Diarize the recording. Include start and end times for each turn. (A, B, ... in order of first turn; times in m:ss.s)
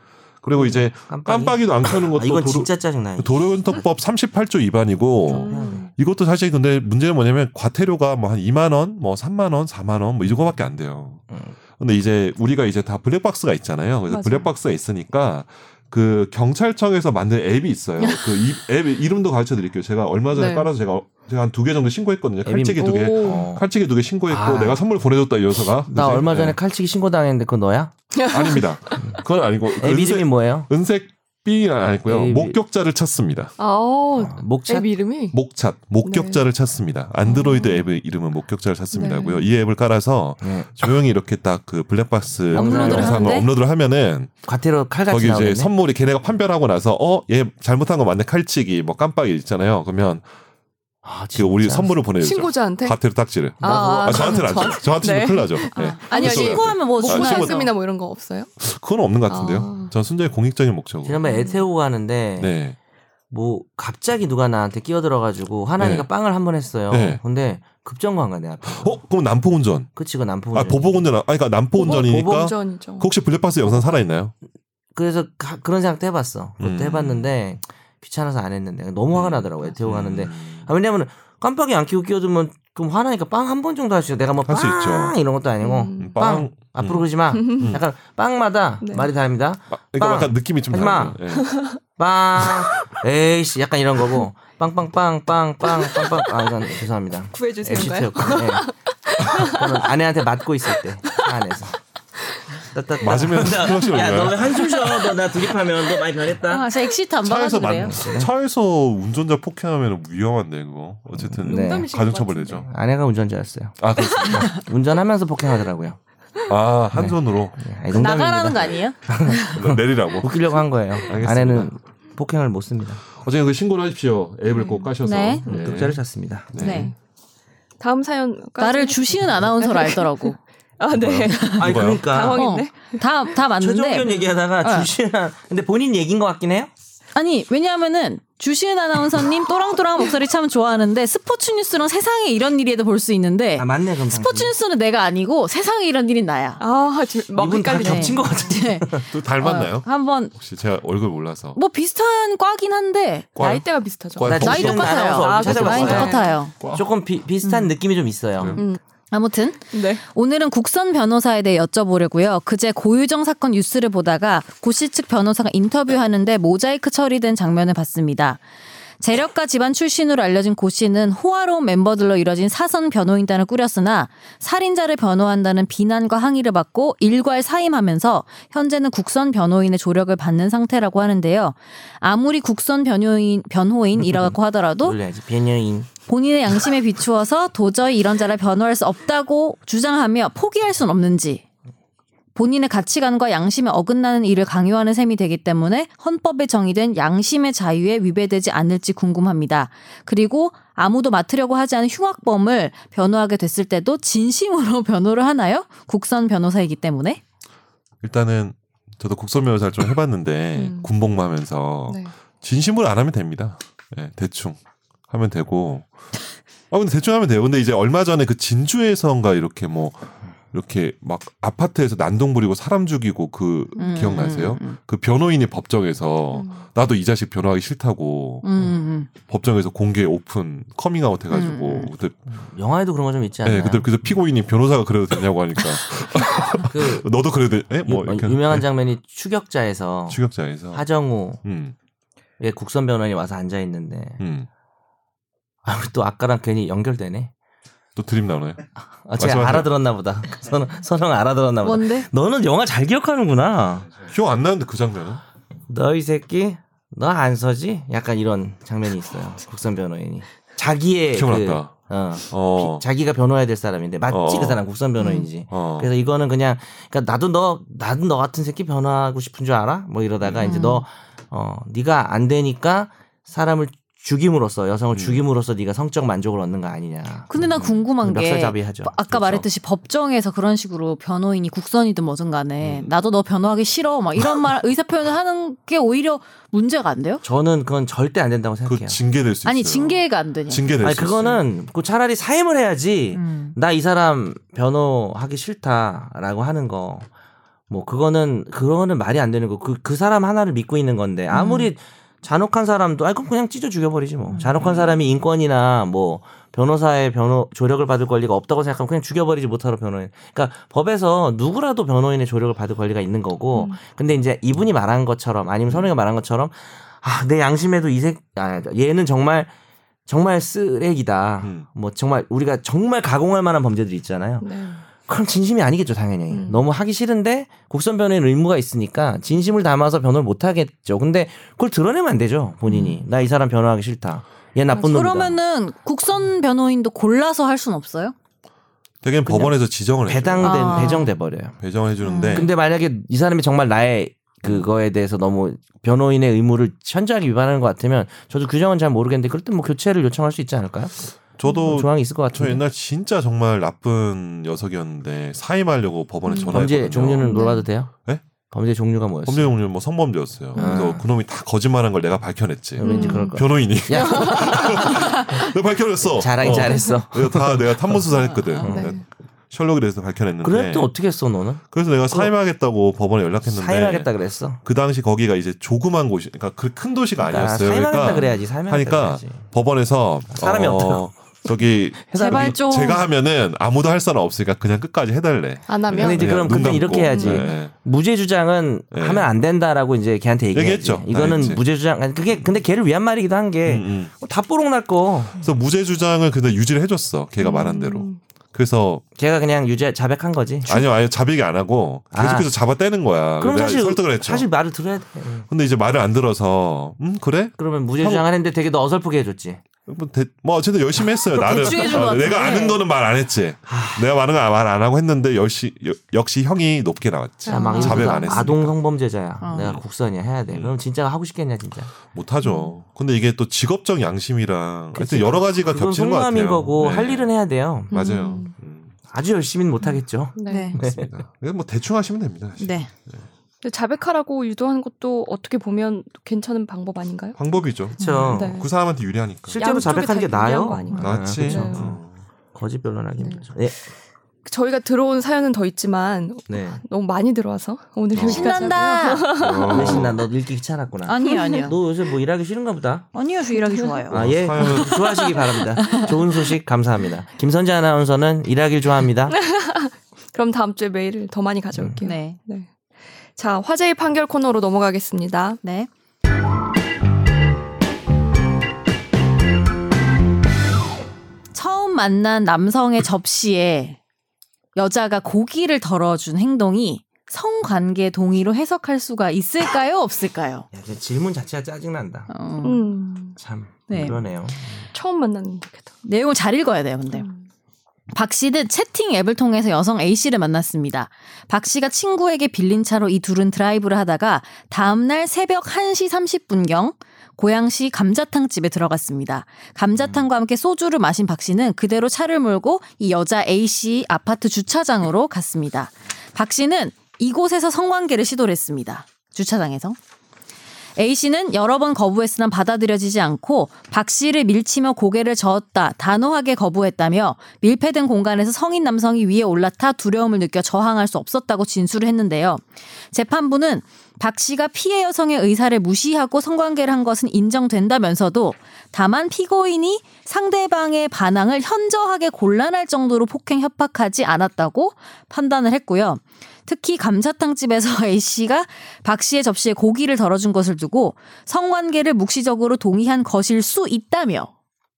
0:00.4-0:11.2 A
0:00.5-0:03.5 B
0:05.3-0:05.9 C
0:05.3-0:05.9 B
0:11.8-0:26.6 A
0:14.1-0:14.5 C
0:20.4-0:20.6 C
0:22.4-0:23.6 B
0:22.8-0:23.5 C
0:24.3-0:24.8 B
0:25.8-0:27.9 B
0:28.1-0:29.0 C
0:28.3-0:33.5 A
0:29.8-0:30.7 B
0:32.0-0:32.6 B
0:33.6-0:35.4 C
0:34.2-0:34.9 B
0:35.3-0:44.3 A
0:36.0-0:36.4 C
0:37.2-0:37.9 C
0:38.9-0:39.5 C
0:40.4-0:40.9 B
0:42.5-0:43.3 B
0:42.5-0:43.5 D
0:44.4-0:45.7 B
0:45.1-0:50.2 A
0:51.0-0:52.0 B
0:51.3-0:57.7 A
0:52.2-0:53.0 C
0:53.6-0:58.5 C
0:53.6-0:54.8 B
0:55.8-0:57.7 D
0:58.6-1:01.2 A
0:59.3-0:59.9 C
1:01.0-1:02.5 B
1:01.2-1:01.6 C
1:02.4-1:02.8 A
1:03.3-1:09.0 B
1:05.8-1:06.1 A
1:06.9-1:07.2 A
1:08.6-1:09.9 A
1:09.9-1:11.1 B
1:10.5-1:14.3 A
1:11.8-1:13.1 C
1:11.9-1:12.5 B
1:14.9-1:31.2 B
1:16.6-1:17.3 A
1:19.1-1:20.7 A
1:24.4-1:25.2 A
1:25.6-1:26.2 C
1:26.0-1:27.8 A
1:27.3-1:27.7 C
1:28.8-1:29.1 C
1:29.7-1:31.6 A
1:31.4-1:31.8 C
1:32.0-1:38.7 B
1:35.7-1:36.1 C
1:37.3-1:39.9 C
1:39.3-1:41.8 B
1:42.7-1:46.7 B
1:43.0-1:44.8 A
1:46.5-1:48.0 D
1:47.2-1:52.7 A
1:47.8-1:48.3 B
1:51.2-1:51.9 B
1:51.4-1:52.6 C
1:52.5-1:56.0 B
1:53.8-1:54.6 A
1:56.5-1:57.6 A
1:56.9-2:03.0 B
1:57.9-1:59.6 D
1:59.5-2:01.7 A
2:03.2-2:06.9 A
2:04.5-2:04.9 C
2:05.0-2:05.4 D
2:05.4-2:06.6 B
2:06.6-2:06.9 D
2:06.6-2:06.9 C
2:07.8-2:13.0 C
2:08.6-2:10.4 D
2:10.9-2:12.1 A
2:11.3-2:11.6 D
2:11.6-2:12.4 B
2:12.3-2:14.9 D
2:13.6-2:16.7 B
2:17.1-2:26.6 D
2:23.6-2:24.5 B
2:26.6-2:28.5 C
2:27.4-2:29.1 B
2:27.8-2:30.3 D
2:29.1-2:31.6 A
2:31.5-2:33.3 D
2:33.4-2:36.0 A
2:33.4-2:36.3 C
2:34.2-2:38.6 B
2:34.4-2:36.5 D
2:36.6-2:36.9 A
2:38.4-2:38.6 A
2:39.1-2:48.4 D
2:39.7-2:40.0 C
2:49.0-3:05.0 D
3:04.1-3:05.9 B
3:06.1-3:11.4 D
3:12.3-3:27.2 D
3:28.0-3:35.9 A
3:30.6-3:30.9 C
3:31.9-3:32.1 C
3:36.7-3:48.6 A
3:43.8-3:44.8 D
3:46.3-3:46.7 C
3:48.4-3:49.1 D
3:49.3-3:52.2 A
3:51.3-3:51.9 D
3:52.3-3:54.0 B
3:53.4-3:58.6 A
3:56.7-3:57.1 B
3:57.8-4:01.4 B
4:00.1-4:00.8 A
4:01.4-4:01.7 A
4:02.4-4:04.2 B
4:04.2-4:04.5 A
4:05.6-4:07.3 B
4:08.0-4:08.6 A
4:09.0-4:14.0 B
4:09.2-4:09.7 A
4:11.6-4:12.1 D
4:14.0-4:15.2 A
4:15.7-4:39.0 B
4:21.1-4:22.8 A
4:24.1-4:24.6 A
4:25.0-4:25.3 D
4:25.5-4:25.9 A
4:30.2-4:30.5 A
4:30.4-4:30.8 D
4:34.9-4:35.2 A
4:37.3-4:47.2 D
4:39.1-4:39.4 A
4:47.2-4:49.0 B
4:48.6-4:51.4 A
4:49.4-4:50.7 D
4:50.8-4:57.1 B
4:53.1-4:53.5 D
4:57.7-5:19.5 B
5:01.3-5:01.7 D
5:13.5-5:13.8 C
5:20.1-5:24.5 B
5:21.4-5:21.7 A
5:24.4-5:24.8 C
5:25.0-5:35.4 B
5:26.3-5:26.6 C
5:32.7-5:33.0 D
5:34.8-5:38.1 D
5:39.0-5:42.5 A
5:39.2-5:41.6 B
5:40.4-5:41.1 D
5:42.0-5:42.4 D
5:42.3-5:52.6 B
5:51.3-5:57.3 A
5:56.3-5:56.6 C
5:56.4-5:57.9 B
5:57.2-5:57.6 C
5:57.3-5:57.6 D
5:58.5-5:59.5 B
5:59.2-6:10.9 A
6:00.5-6:00.9 C
6:00.6-6:01.1 B
6:02.8-6:05.2 B
6:02.8-6:05.0 C
6:02.9-6:03.2 D
6:06.1-6:08.1 B
6:06.4-6:06.9 C
6:08.6-6:09.0 B
6:08.6-6:09.0 C
6:10.4-6:12.3 B
6:11.7-6:14.1 A
6:13.4-6:14.6 B
6:14.6-6:27.7 A
6:17.2-6:19.5 B
6:20.3-6:21.1 B
6:22.1-6:22.6 B
6:22.1-6:23.0 D
6:25.7-6:27.5 C
6:25.9-6:35.4 B
6:28.9-6:29.3 A
6:30.5-6:31.6 A
6:33.6-6:34.1 A
6:35.4-6:39.0 A
6:37.4-6:38.2 C
6:39.2-6:40.8 B
6:40.6-6:44.5 A
6:42.1-6:42.5 B
6:43.4-6:45.5 B
6:45.5-6:48.2 A
6:47.6-6:49.6 B
6:49.8-6:58.8 A
6:51.3-6:52.8 D
6:53.7-6:54.1 B
6:57.4-6:58.4 C
6:57.5-7:02.0 B
6:57.6-6:58.4 D
6:59.4-6:59.7 D
7:00.5-7:00.7 A
7:02.0-7:07.3 A
7:02.4-7:02.7 C
7:04.9-7:07.9 B
7:07.9-7:08.5 C
7:07.9-7:08.9 A
7:09.1-7:11.1 B
7:10.4-7:10.8 C
7:10.5-7:10.8 D
7:10.8-7:13.2 A
7:12.6-7:12.9 D
7:13.6-7:17.4 C
7:17.4-7:19.6 A
7:18.0-7:18.3 D
7:18.0-7:18.6 B
7:18.3-7:18.7 C
7:19.5-7:22.0 B
7:19.5-7:22.0 C
7:20.9-7:22.1 A
7:22.5-7:23.8 B
7:23.2-7:23.5 C
7:24.4-7:30.1 C
7:26.5-7:26.8 B
7:28.1-7:28.6 A
7:28.2-7:29.3 D
7:29.4-7:30.2 A
7:29.6-7:33.1 B
7:31.0-7:31.8 D
7:31.2-7:31.7 C
7:33.1-7:34.7 D
7:33.5-7:34.0 C
7:34.1-7:35.0 A
7:34.1-7:39.4 B
7:35.8-7:36.1 D
7:39.3-7:42.7 C
7:42.0-7:42.4 D
7:43.3-7:45.6 C
7:45.6-7:45.9 D
7:51.5-7:54.0 D
7:54.8-8:00.6 D
8:00.7-8:02.3 B
8:02.3-8:02.9 D
8:02.6-8:03.4 C
8:03.4-8:04.8 B
8:03.9-8:04.2 D
8:04.9-8:05.9 C
8:06.0-8:07.3 D
8:07.1-8:07.4 C
8:08.1-8:30.0 D
8:31.0-9:04.5 D